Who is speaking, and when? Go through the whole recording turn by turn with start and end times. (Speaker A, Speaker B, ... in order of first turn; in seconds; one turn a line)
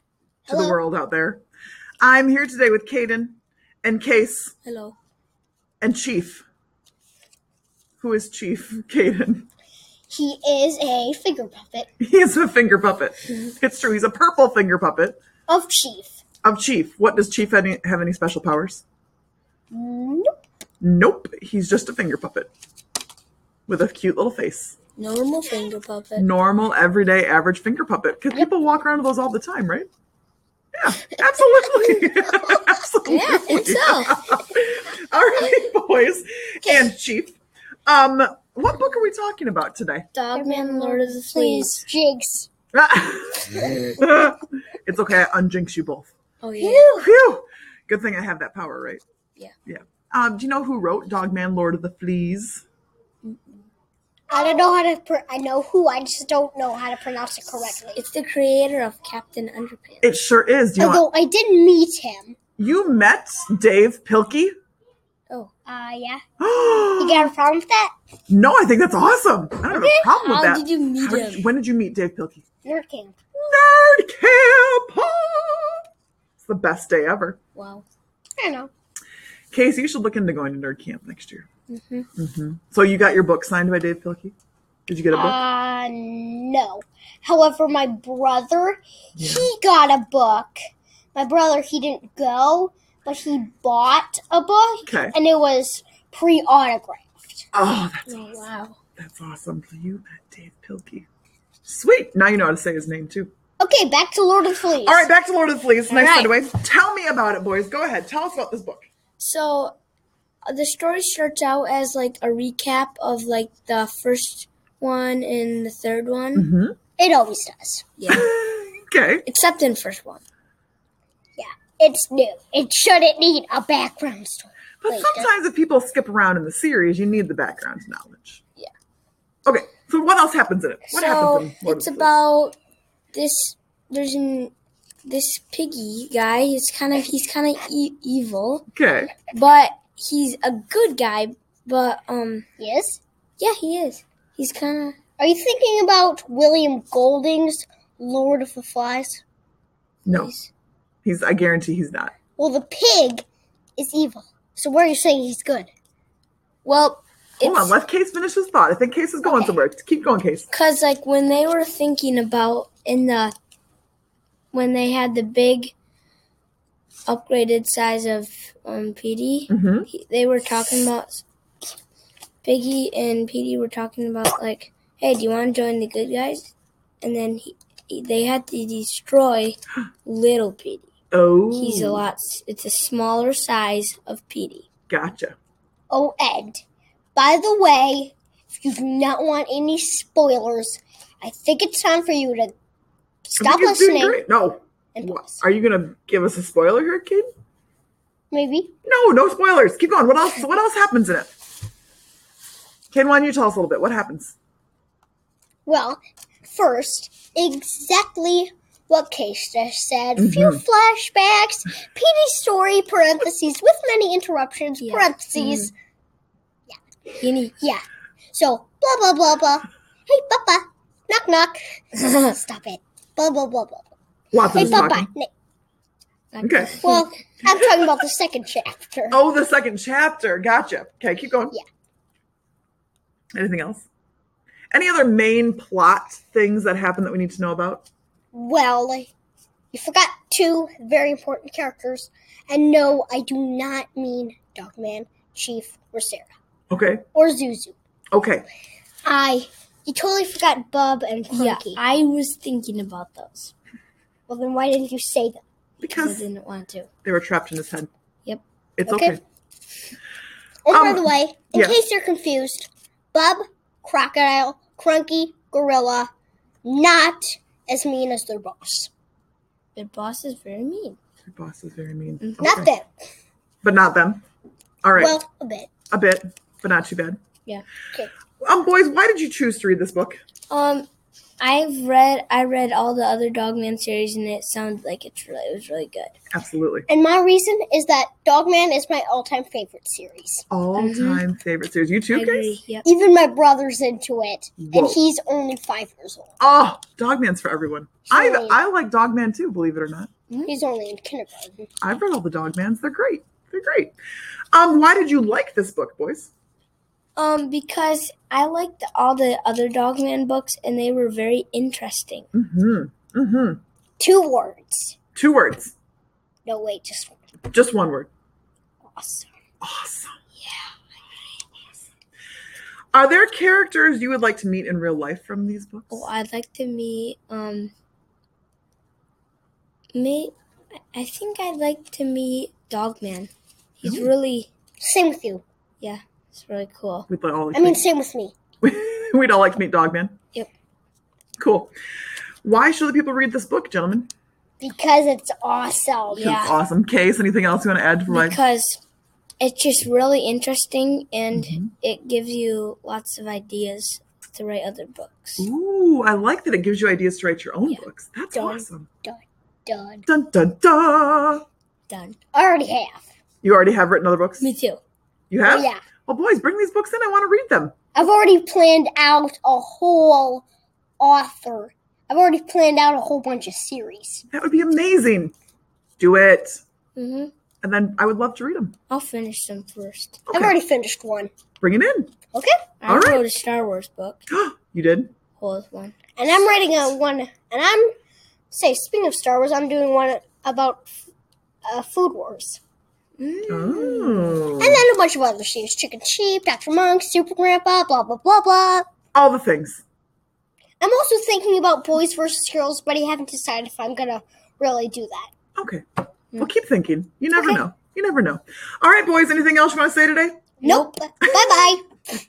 Speaker A: 0.5-0.8
Speaker B: 0.5-1.4
Speaker B: 2.0-4.5
Speaker C: 4.6-4.9
Speaker B: 5.8-6.4
Speaker B: 8.0-9.4
Speaker A: 10.1-11.9
Speaker B: 12.0-15.2
Speaker A: 15.5-16.2
Speaker B: 16.4-18.8
Speaker A: 19.7-20.3
Speaker B: 20.8-22.5
Speaker B: 23.7-24.8
Speaker C: 25.0-26.3
Speaker B: 26.2-29.9
Speaker B: 30.7-40.1
Speaker C: 33.1-34.2
Speaker C: 40.1-41.8
Speaker A: 40.3-42.5
Speaker B: 42.7-46.1
Speaker C: 46.4-46.9
Speaker A: 46.6-47.1
Speaker B: 46.9-49.0
Speaker B: 49.6-52.6
Speaker A: 54.3-58.0
Speaker C: 57.9-60.1
Speaker B: 60.0-61.0
Speaker A: 60.8-62.4
Speaker B: 62.6-64.5
Speaker A: 65.7-66.2
Speaker B: 66.4-67.3
Speaker A: 67.0-67.9
Speaker B: 68.3-72.4
Speaker C: 69.7-71.5
Speaker A: 72.6-73.2
Speaker B: 73.3-75.8
Speaker B: 76.4-77.4
Speaker C: 77.5-77.8
Speaker A: 78.4-78.7
Speaker B: 79.5-81.5
Speaker C: 81.7-82.1
Speaker B: 82.2-84.3
Speaker B: 84.9-85.4
Speaker A: 85.1-90.6
Speaker B: 89.2-89.5
Speaker A: 91.1-97.5
Speaker B: 94.8-95.1
Speaker B: 97.5-101.1
Speaker C: 98.1-98.8
Speaker B: 101.6-103.3
Speaker A: 103.6-105.1
Speaker B: 104.8-108.9
Speaker C: 105.9-106.3
Speaker C: 109.2-109.7
Speaker C: 110.5-116.5
Speaker B: 116.3-116.8
Speaker A: 117.0-117.9
Speaker C: 118.0-118.3
Speaker B: 118.1-119.2
Speaker C: 119.2-120.2
Speaker A: 121.4-125.3
Speaker B: 124.8-128.4
Speaker B: 129.4-132.1
Speaker C: 130.9-132.6
Speaker C: 133.1-134.5
Speaker C: 135.0-138.7
Speaker B: 138.7-139.1
Speaker C: 139.3-142.4
Speaker A: 142.6-143.0
Speaker C: 143.4-145.0
Speaker A: 145.2-149.2
Speaker B: 150.1-150.3
Speaker C: 150.1-150.5
Speaker B: 151.0-152.1
Speaker A: 152.4-153.2
Speaker A: 153.8-155.7
Speaker C: 156.6-157.8
Speaker B: 157.4-160.5
Speaker A: 159.2-159.6
Speaker C: 160.5-163.3
Speaker C: 164.5-165.7
Speaker C: 167.1-171.2
Speaker B: 169.5-169.9
Speaker C: 172.4-180.9
Speaker B: 181.1-182.0
Speaker C: 181.5-184.7
Speaker B: 184.9-185.3
Speaker A: 185.9-186.6
Speaker A: 187.1-192.5
Speaker A: 193.3-194.2
Speaker B: 193.4-197.3
Speaker A: 194.9-195.4
Speaker A: 198.3-198.7
Speaker B: 198.8-201.3
Speaker B: 202.9-204.3
Speaker A: 205.7-215.7
Speaker B: 210.2-210.6
Speaker C: 214.8-215.7
Speaker C: 217.2-217.6
Speaker A: 217.6-223.9
Speaker B: 224.3-225.1
Speaker C: 224.5-224.8
Speaker A: 224.5-225.3
Speaker C: 226.3-227.2
Speaker B: 226.4-226.8
Speaker A: 226.8-229.2
Speaker B: 229.1-231.5
Speaker B: 233.3-233.9
Speaker B: 234.7-237.8
Speaker A: 238.3-239.1
Speaker A: 239.7-246.3
Speaker B: 246.7-247.0
Speaker A: 247.1-247.8
Speaker B: 248.1-248.5
Speaker A: 249.0-251.8
Speaker C: 251.3-253.5
Speaker A: 254.3-255.4
Speaker B: 255.8-256.2
Speaker C: 255.9-256.9
Speaker B: 257.0-257.9
Speaker B: 258.8-259.2
Speaker A: 258.9-259.2
Speaker A: 260.6-266.1
Speaker B: 260.7-261.8
Speaker A: 266.6-268.9
Speaker C: 269.8-271.0
Speaker B: 271.2-272.7
Speaker C: 272.2-272.6
Speaker A: 272.4-272.9
Speaker B: 273.6-274.2
Speaker B: 274.8-275.2
Speaker A: 274.9-275.7
Speaker B: 275.9-277.2
Speaker B: 278.4-280.2
Speaker C: 280.5-280.9
Speaker C: 281.4-286.1
Speaker B: 286.3-286.9
Speaker A: 286.9-290.4
Speaker B: 290.5-292.5
Speaker C: 290.8-291.2
Speaker C: 292.1-292.8
Speaker A: 292.8-296.3
Speaker B: 294.6-295.0
Speaker B: 296.4-300.1
Speaker A: 298.1-298.6
Speaker A: 300.4-301.7
Speaker B: 301.8-303.9
Speaker B: 304.5-306.3
Speaker C: 307.2-312.3
Speaker B: 312.3-313.6
Speaker A: 314.0-314.9
Speaker B: 315.1-315.7
Speaker A: 316.4-317.2
Speaker B: 317.5-318.1
Speaker A: 318.9-319.3
Speaker B: 319.6-320.1
Speaker C: 320.4-320.7
Speaker B: 322.9-326.1
Speaker C: 325.9-327.7
Speaker C: 329.9-330.3
Speaker C: 330.9-334.5
Speaker B: 333.8-334.1
Speaker A: 334.8-335.4
Speaker C: 335.8-337.1
Speaker B: 337.1-337.8
Speaker A: 337.5-338.3
Speaker B: 338.6-340.1
Speaker B: 341.4-341.7
Speaker B: 342.4-344.1
Speaker A: 344.6-346.3
Speaker C: 346.1-346.6
Speaker B: 346.2-348.4
Speaker C: 348.1-348.8
Speaker C: 349.4-355.4
Speaker B: 351.3-351.7
Speaker B: 355.4-358.9
Speaker A: 358.3-360.0
Speaker B: 360.1-361.4
Speaker C: 361.9-362.2
Speaker A: 362.3-363.0
Speaker B: 363.4-364.5
Speaker C: 364.4-364.8
Speaker B: 365.3-367.7
Speaker A: 365.4-365.8
Speaker A: 367.9-370.4
Speaker A: 371.0-374.2
Speaker B: 374.3-375.3
Speaker B: 376.0-376.6
Speaker C: 376.9-377.3
Speaker B: 377.6-378.7
Speaker C: 378.9-380.2
Speaker B: 380.3-380.5
Speaker A: 380.3-381.3
Speaker B: 381.6-382.1
Speaker A: 382.3-382.6
Speaker C: 382.8-384.2
Speaker B: 382.9-383.2
Speaker B: 384.3-385.1
Speaker C: 385.4-385.9
Speaker A: 386.1-387.9
Speaker A: 388.5-390.9
Speaker A: 391.6-392.6
Speaker C: 393.2-394.4
Speaker B: 393.5-394.8
Speaker A: 394.6-398.9
Speaker B: 399.1-399.8
Speaker A: 400.8-405.3
Speaker B: 405.6-405.8
Speaker B: 406.4-410.5
Speaker A: 407.3-407.6
Speaker A: 410.6-411.9
Speaker C: 410.6-411.0